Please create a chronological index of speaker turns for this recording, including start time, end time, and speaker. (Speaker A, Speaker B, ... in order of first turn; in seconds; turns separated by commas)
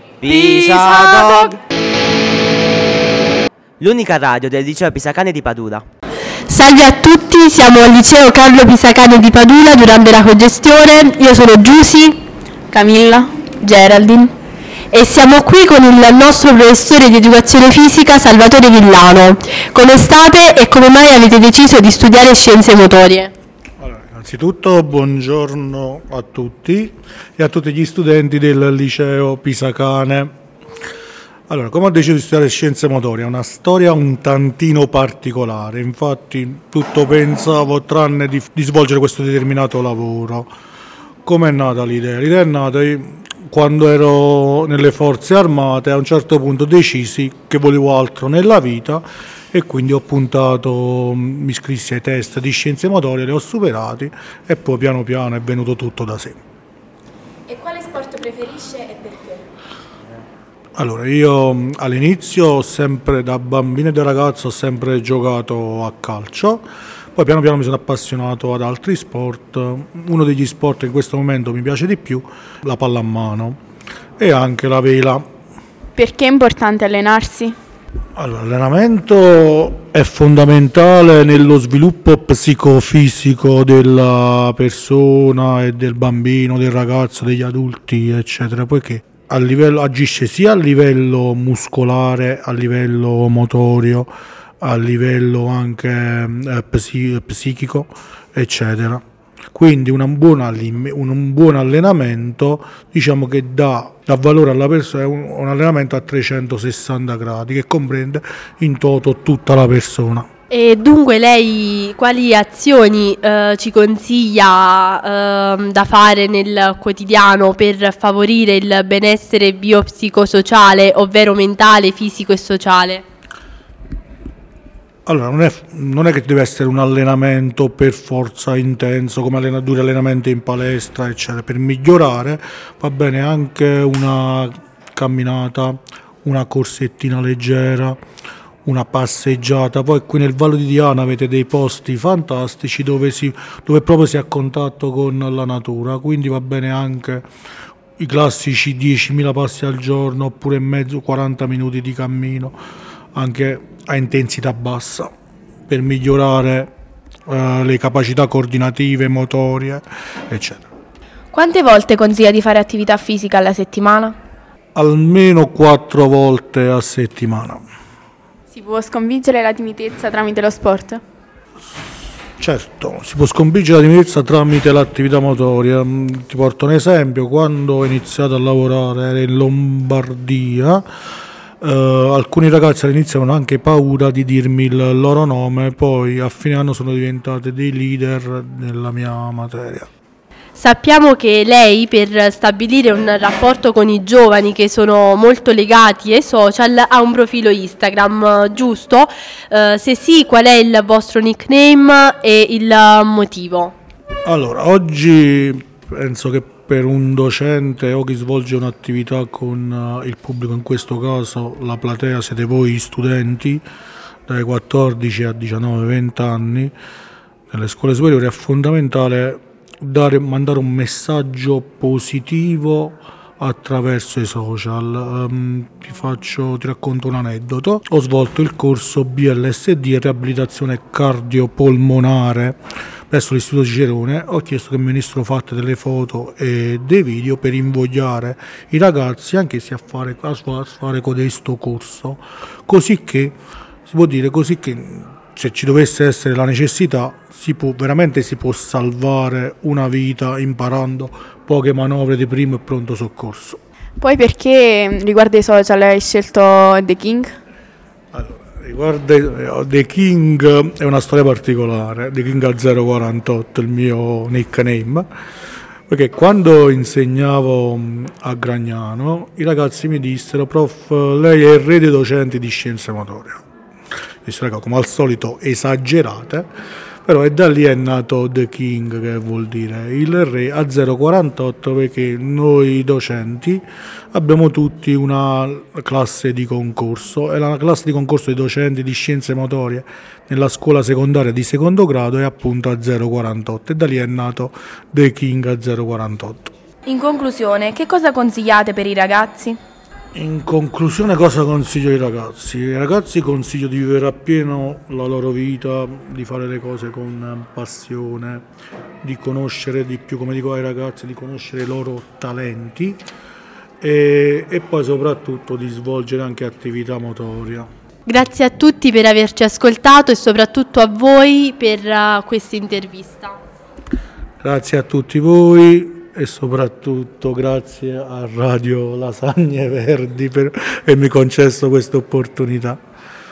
Speaker A: 0.2-1.6, Speaker B: 0.4-1.2, Speaker A: 3.8-5.8, Speaker B: 6.5-12.2, Speaker C: 12.7-14.3, Speaker B: 14.9-23.3, Speaker D: 23.8-30.3, Speaker D: 31.5-40.5, Speaker D: 41.2-56.4, Speaker E: 57.5-59.4, Speaker D: 60.8-66.6, Speaker D: 67.2-73.6, Speaker D: 74.2-75.2, Speaker C: 76.0-77.5, Speaker D: 78.2-94.1, Speaker D: 94.6-99.0, Speaker D: 99.5-110.3, Speaker B: 110.5-123.0, Speaker D: 125.0-138.0, Speaker D: 138.7-147.2, Speaker D: 148.0-152.5, Speaker D: 153.1-155.1, Speaker D: 155.7-156.7, Speaker D: 157.3-160.6, Speaker E: 161.3-164.2, Speaker D: 164.7-167.6, Speaker C: 168.5-171.0, Speaker D: 172.4-180.8, Speaker D: 181.6-189.9, Speaker B: 190.5-203.7, Speaker D: 204.2-213.6, Speaker D: 214.3-216.7, Speaker D: 217.5-232.6, Speaker D: 233.1-243.3, Speaker D: 243.9-253.6, Speaker C: 254.0-257.3, Speaker D: 258.1-265.1, Speaker D: 265.9-273.4, Speaker D: 274.2-276.5, Speaker D: 277.1-296.5, Speaker E: 296.9-299.6, Speaker D: 300.1-308.4, Speaker D: 309.0-313.0, Speaker D: 313.8-317.7, Speaker B: 318.1-323.4, Speaker D: 324.4-332.8